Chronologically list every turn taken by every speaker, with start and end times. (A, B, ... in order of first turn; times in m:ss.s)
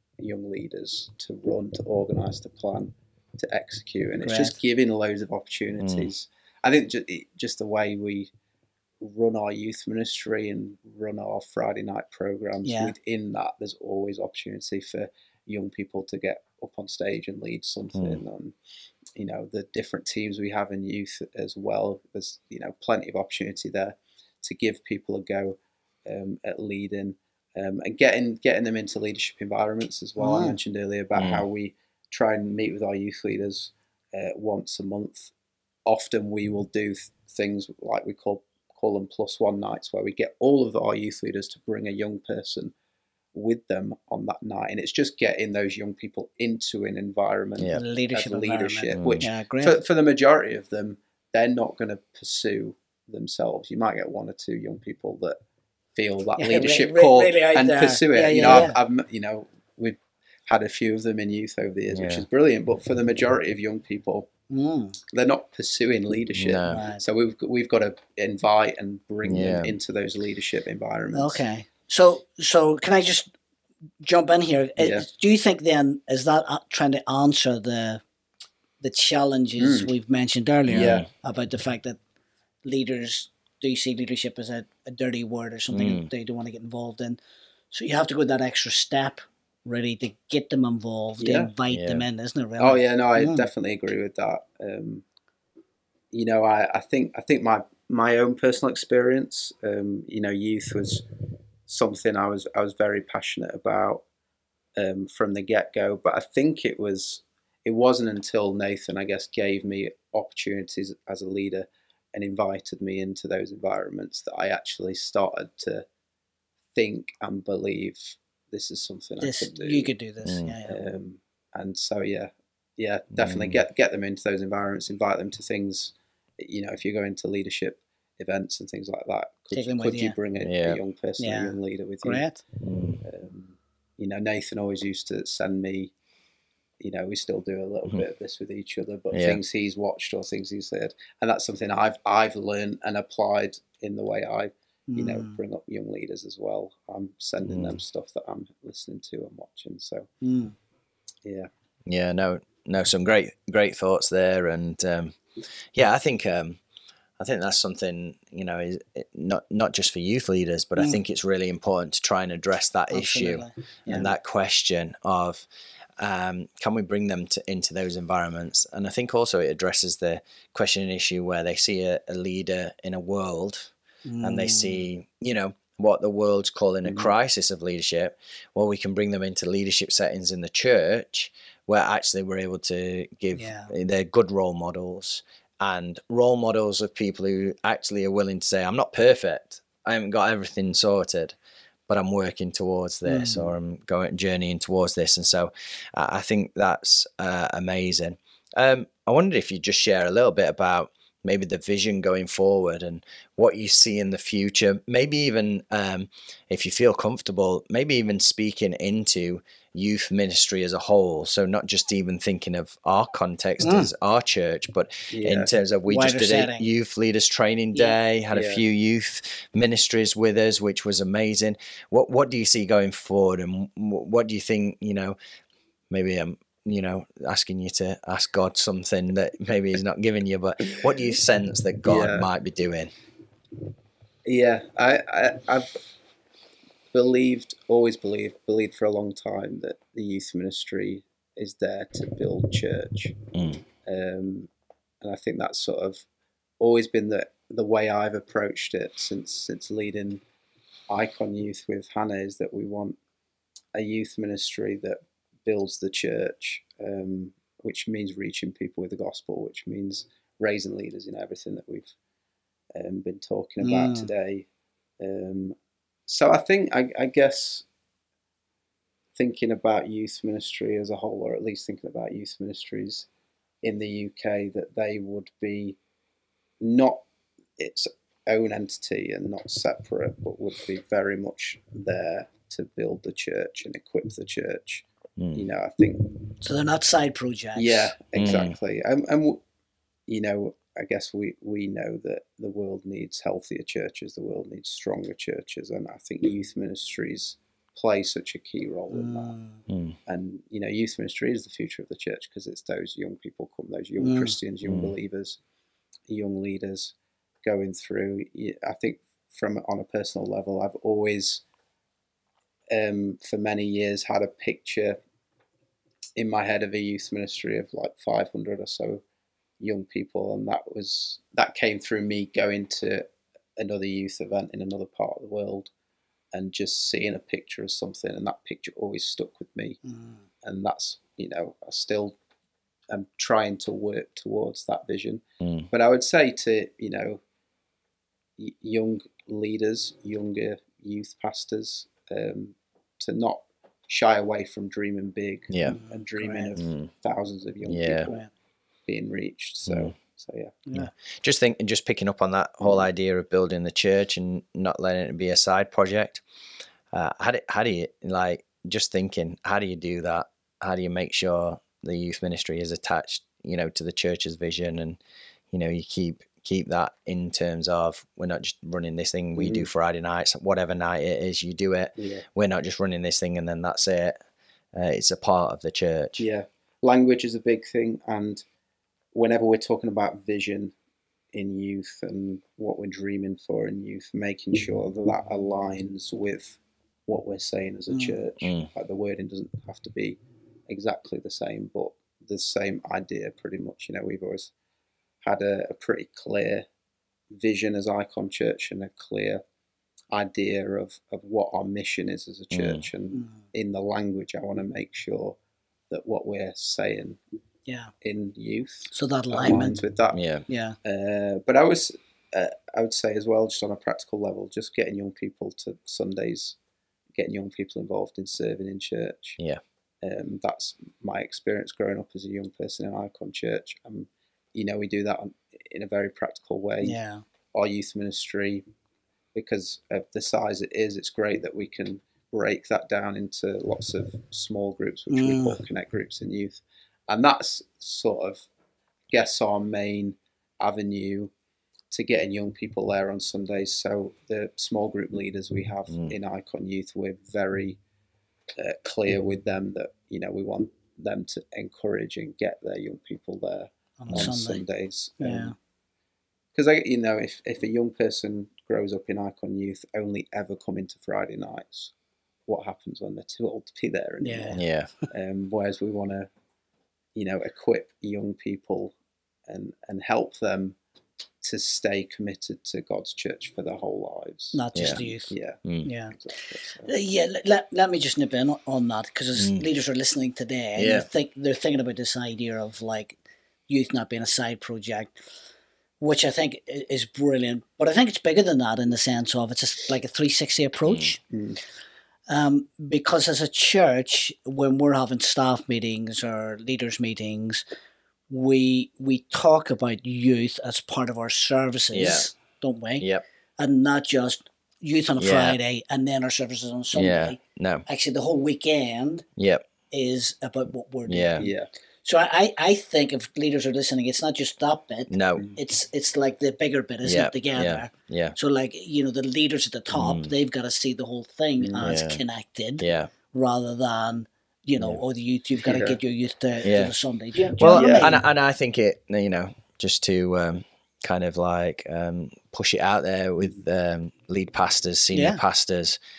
0:00.2-0:08.3 A
0:04.2-0:04.6 B
0:05.8-0:06.1 C
0:09.0-0:18.6 A
0:12.6-0:12.9 B
0:18.0-0:18.2 C
0:19.2-0:35.3 A
0:30.2-0:30.6 B
0:31.1-0:31.5 C
0:35.9-0:42.7 A
0:43.3-0:55.4 A
0:47.7-0:49.8 B
0:48.9-0:49.3 C
0:56.0-1:04.3 A
0:56.4-0:58.8 B
1:01.9-1:02.3 C
1:04.5-1:05.0 B
1:05.1-1:11.4 A
1:06.4-1:06.8 C
1:06.7-1:07.0 B
1:09.2-1:09.7 C
1:11.1-1:13.3 B
1:14.0-1:18.0 B
1:14.8-1:15.1 A
1:18.8-1:22.0 B
1:19.6-1:19.9 A
1:20.7-1:21.1 C
1:20.7-1:21.1 A
1:22.6-1:27.2 B
1:25.7-1:26.1 C
1:27.7-1:33.5 B
1:31.2-1:31.5 A
1:31.7-1:32.0 C
1:32.6-1:35.0 A
1:36.1-1:41.0 A
1:41.7-1:44.0 A
1:44.8-1:55.8 A
1:56.7-1:59.9 A
1:59.2-2:00.9 B
2:00.2-2:00.6 C
2:00.6-2:12.3 A
2:03.2-2:03.6 C
2:09.5-2:10.2 B
2:10.4-2:10.8 C
2:11.2-2:12.4 B
2:12.6-2:13.0 C
2:13.0-2:15.9 A
2:16.8-2:30.1 A
2:19.1-2:19.4 C
2:24.9-2:25.4 B
2:27.5-2:27.8 C
2:30.2-2:30.6 B
2:31.9-2:35.2 C
2:35.7-2:36.6 C
2:37.2-2:45.5 C
2:40.8-2:41.0 B
2:42.9-2:44.1 B
2:46.0-3:11.4 C
2:54.1-2:54.8 B
2:56.8-2:57.1 A
3:03.3-3:03.7 B
3:11.9-3:45.2 C
3:13.1-3:13.5 B
3:33.6-3:33.9 B
3:35.1-3:35.5 A
3:35.9-3:36.7 B
3:38.3-3:38.6 A
3:45.9-3:52.9 C
3:50.7-3:51.2 A
3:51.8-3:52.3 A
3:54.2-3:55.8 A
3:56.9-4:03.2 A
4:03.3-4:03.6 C
4:03.8-4:04.5 A
4:05.0-4:06.0 A
4:06.6-4:10.2 A
4:10.9-4:13.0 A
4:13.7-4:21.9 A
4:22.7-4:24.5 A
4:23.6-4:24.1 B
4:25.0-4:25.6 A
4:26.1-4:27.6 A
4:29.2-4:33.1 A
4:33.6-4:35.8 A
4:36.6-4:37.0 A
4:37.6-4:46.3 A
4:45.2-4:45.5 C
4:46.4-4:47.9 B
4:47.6-4:49.4 A
4:48.2-4:48.6 C
4:50.1-4:59.4 A
4:58.9-4:59.6 B
4:59.7-5:00.0 C
5:00.1-5:05.4 A
5:04.0-5:04.4 B
5:04.6-5:04.9 C
5:06.1-5:11.4 A
5:12.7-5:15.0 A
5:16.2-5:19.0 A
5:19.6-5:23.1 A
5:23.6-5:25.7 A
5:26.3-5:29.8 A
5:29.9-5:30.2 B
5:30.4-5:32.2 A
5:32.9-5:37.2 A
5:35.4-5:35.7 C
5:38.4-5:48.2 A
5:45.5-5:45.8 C
5:45.6-5:46.6 B
5:46.6-5:46.9 C
5:47.7-5:48.1 C
5:48.9-5:50.6 A
5:49.7-5:49.9 C
5:50.7-5:56.2 C
5:56.9-6:05.0 C
6:05.5-6:14.2 C
6:09.4-6:09.7 A
6:12.0-6:12.2 A
6:14.7-6:16.3 C
6:16.2-6:18.4 A
6:19.1-6:20.7 A
6:21.3-6:34.5 A
6:27.9-6:28.2 B
6:28.4-6:28.7 C
6:35.2-6:36.7 A
6:37.3-6:39.4 A
6:40.1-6:45.4 A
6:42.5-6:42.9 C
6:43.1-6:43.4 B
6:45.9-6:47.2 A
6:47.7-6:47.9 B
6:48.0-6:50.2 A
6:48.9-6:49.8 B
6:50.1-6:50.4 C
6:50.5-6:50.8 B
6:50.8-6:56.6 A
6:57.2-6:59.4 A
7:00.0-7:07.0 A
7:06.8-7:07.2 B
7:07.5-7:08.6 A
7:09.4-7:18.5 A
7:15.1-7:15.6 B
7:19.1-7:21.3 A
7:21.9-7:27.8 A
7:25.9-7:26.2 C
7:28.6-7:35.5 A
7:34.0-7:34.6 B
7:35.2-7:35.6 B
7:36.6-7:41.9 A
7:42.5-7:46.3 A
7:44.2-7:44.6 B
7:44.5-7:44.9 C
7:47.2-7:48.9 A
7:49.5-7:50.8 A
7:51.4-7:56.9 A
7:54.5-7:56.1 B
7:56.9-8:03.2 B
7:59.4-7:59.7 C
8:00.8-8:01.1 C
8:03.7-8:05.2 B
8:06.0-8:11.2 B
8:10.9-8:11.2 C
8:11.3-8:11.6 A
8:12.3-8:17.6 B
8:18.3-8:23.1 B
8:21.9-8:22.3 C
8:23.0-8:23.2 C
8:23.6-8:29.2 B
8:25.2-8:25.6 C
8:26.9-8:27.8 C
8:29.4-8:29.7 C
8:29.9-8:31.5 B
8:31.1-8:31.5 C
8:31.4-8:31.7 A
8:32.0-8:48.2 B
8:35.1-8:35.5 C
8:37.0-8:38.4 C
8:39.9-8:40.3 C
8:41.6-8:41.9 A
8:41.8-8:42.2 C
8:42.8-8:43.1 C
8:45.6-8:46.0 A
8:46.6-8:46.9 C
8:47.6-8:56.0 C
8:47.6-8:48.2 A
8:55.1-8:55.4 B